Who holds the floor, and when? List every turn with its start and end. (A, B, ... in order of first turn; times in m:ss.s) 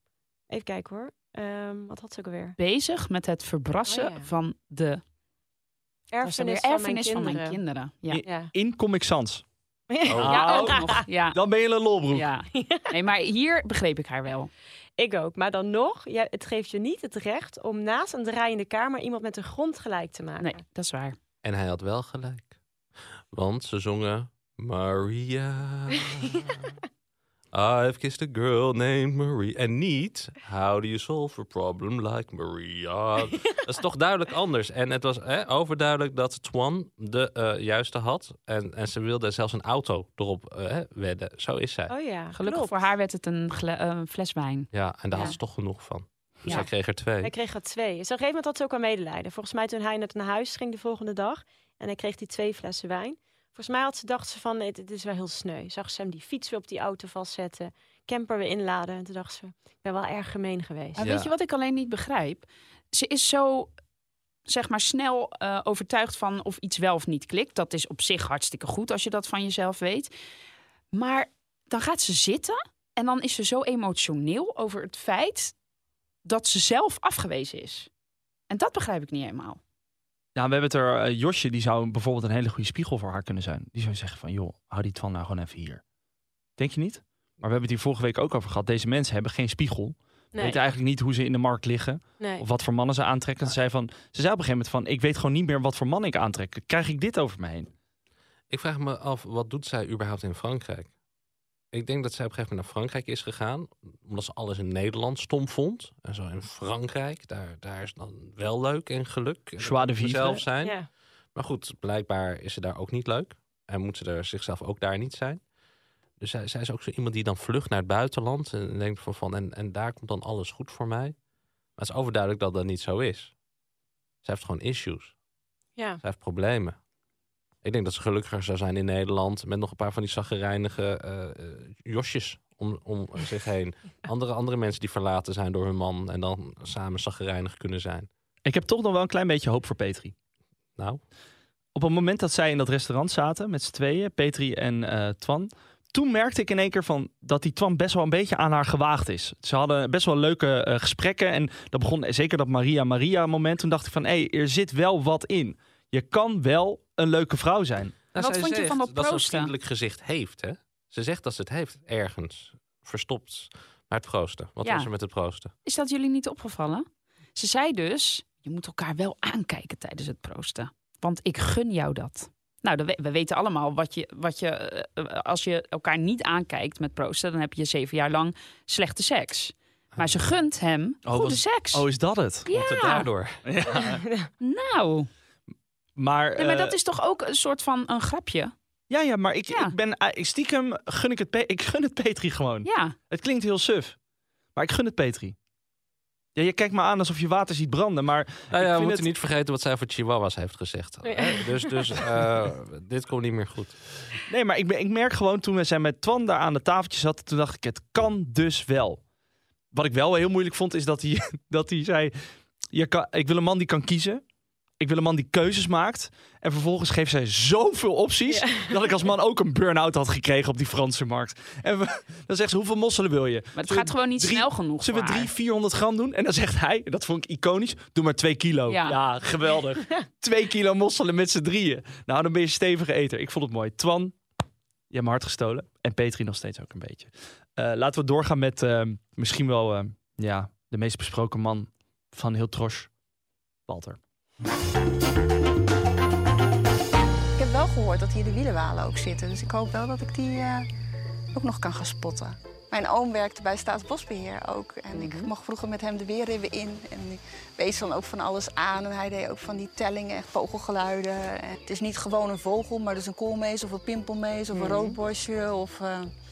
0:00.5-0:02.6 A
0:02.6-0:05.0 B
0:03.9-0:04.3 A
0:06.1-0:07.6 A
0:06.2-0:08.2 B
0:08.1-0:09.4 C
0:08.2-0:08.5 A
0:09.9-0:11.0 A
0:10.0-0:10.5 D
0:10.2-0:12.3 C
0:10.3-0:11.4 B
0:12.1-0:14.5 B
0:12.5-0:12.9 A
0:15.0-0:20.6 A
0:20.4-0:21.2 B
0:21.4-0:22.5 D
0:23.3-0:26.7 D
0:27.5-0:41.9 D
0:41.9-0:42.8 A
0:42.3-0:45.4 B
0:44.7-0:47.3 D
0:46.5-1:01.0 A
1:01.0-1:03.7 B
1:01.0-1:01.3 D
1:04.5-1:10.1 B
1:10.9-1:15.5 B
1:16.2-1:17.9 B
1:18.5-1:19.6 B
1:20.4-1:25.8 C
1:26.6-1:37.7 C
1:30.3-1:30.6 A
1:38.5-1:40.9 D
1:41.7-1:50.8 D
1:49.6-1:50.4 C
1:50.6-1:50.9 A
1:51.4-1:55.4 D
1:56.2-2:01.2 D
2:01.8-2:03.3 D
2:04.2-2:05.1 D
2:06.0-2:06.8 D
2:07.6-2:18.1 D
2:18.4-2:20.1 C
2:21.8-2:38.0 C
2:38.1-2:45.5 D
2:38.2-2:39.5 B
2:44.6-2:44.9 B
2:45.6-3:01.9 B
2:59.9-3:00.2 D
3:01.0-3:02.5 C
3:02.5-3:03.1 B
3:02.5-3:03.4 D
3:03.4-3:04.0 C
3:04.4-3:05.1 B
3:06.0-3:06.8 C
3:06.4-3:08.5 B
3:08.9-3:14.0 C
3:12.6-3:13.0 B
3:14.6-3:15.4 C
3:16.4-3:19.1 C
3:18.5-3:23.7 D
3:21.0-3:22.0 A
3:24.3-3:29.0 C
3:29.7-3:32.2 C
3:32.7-3:34.2 C
3:34.8-3:54.2 C
3:38.3-3:39.0 A
3:43.6-3:45.3 B
3:48.7-3:49.0 B
3:54.9-4:02.9 C
4:03.7-4:04.0 C
4:07.4-4:10.7 E
4:11.3-4:26.1 E
4:14.9-4:15.3 B